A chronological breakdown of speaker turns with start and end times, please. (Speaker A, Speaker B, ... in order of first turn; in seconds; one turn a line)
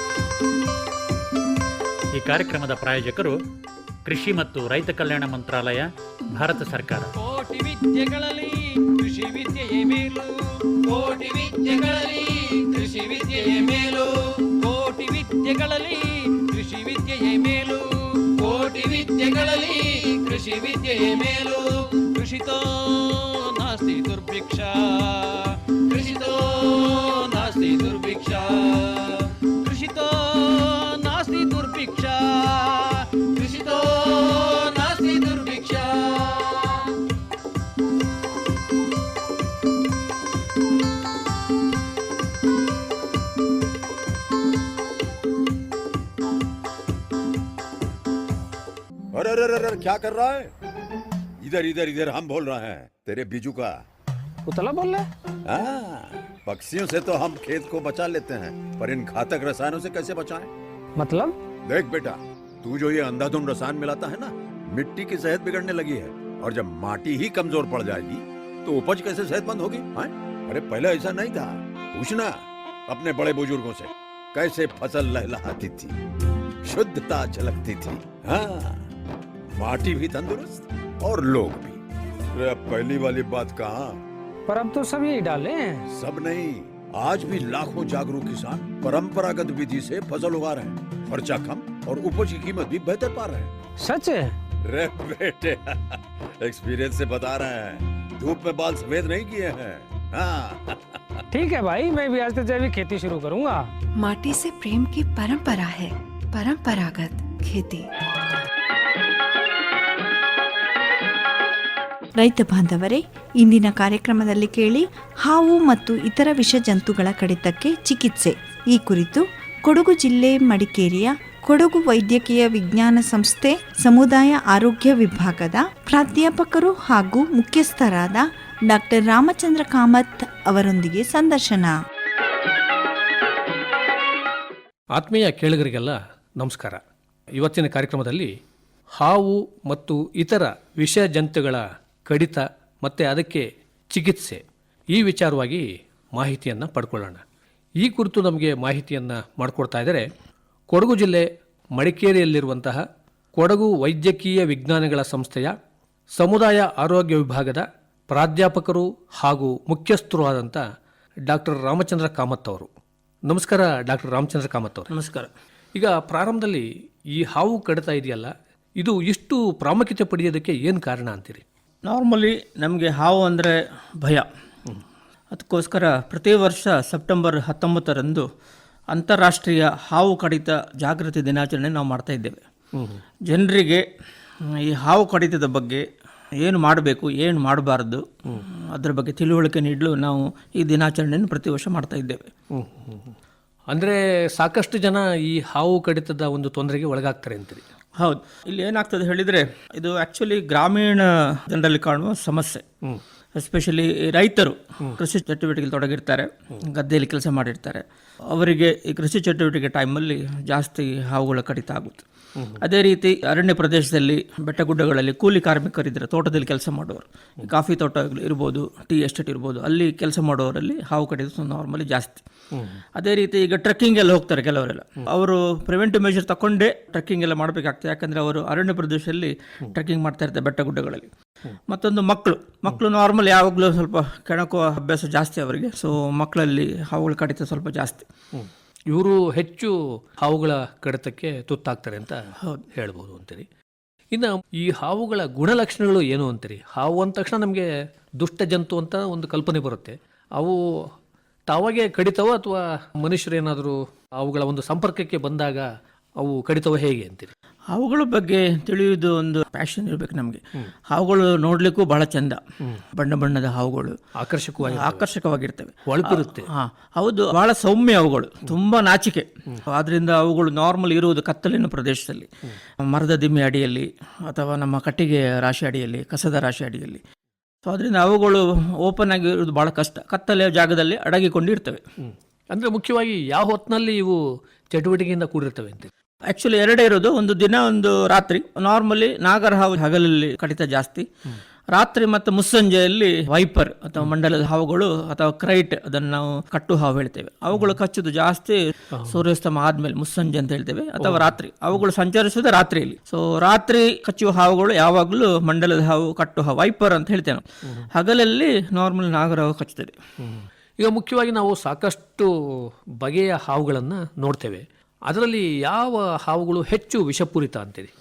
Speaker A: 2.1-3.4
Speaker A: 4.0-7.1
Speaker B: 7.2-36.9
Speaker C: 49.1-50.5
Speaker C: 51.4-53.8
Speaker D: 54.5-55.0
Speaker C: 55.4-60.5
Speaker D: 61.0-61.3
Speaker C: 61.6-72.3
Speaker C: 72.9-75.9
Speaker C: 76.6-78.8
Speaker C: 79.6-81.8
Speaker C: 82.3-84.0
Speaker D: 84.5-85.8
Speaker C: 85.9-93.5
Speaker D: 93.8-94.3
Speaker C: 94.6-101.2
Speaker D: 101.3-103.7
Speaker E: 104.0-107.9
Speaker F: 112.2-131.8
Speaker G: 134.9-136.8
Speaker G: 137.3-138.3
Speaker G: 138.9-147.2
Speaker G: 147.8-150.1
Speaker G: 150.7-152.8
Speaker G: 153.3-155.5
Speaker G: 156.1-160.6
Speaker G: 161.3-162.7
Speaker G: 163.3-164.9
Speaker H: 164.9-165.3
Speaker G: 165.7-171.4
Speaker H: 171.9-174.3
Speaker H: 175.3-178.3
Speaker H: 178.9-182.4
Speaker G: 182.7-183.0
Speaker H: 183.2-183.8
Speaker H: 184.4-185.8
Speaker H: 186.4-192.3
Speaker G: 192.5-193.1
Speaker G: 193.7-197.6
Speaker H: 198.0-202.6
Speaker H: 203.4-212.0
Speaker G: 212.3-212.6
Speaker H: 212.6-222.2
Speaker G: 222.5-222.8
Speaker H: 222.9-231.1
Speaker H: 231.7-238.0
Speaker G: 238.3-243.5
Speaker G: 244.1-250.9
Speaker G: 251.5-257.3
Speaker H: 257.7-262.4
Speaker H: 262.9-264.0
Speaker G: 264.1-265.1
Speaker H: 264.6-272.3
Speaker G: 265.8-266.5
Speaker H: 272.8-277.0
Speaker H: 277.6-281.8
Speaker G: 282.0-284.2
Speaker G: 284.7-285.9
Speaker H: 286.3-291.1
Speaker H: 291.7-309.9
Speaker G: 298.9-299.2
Speaker G: 301.0-301.3
Speaker G: 310.2-317.9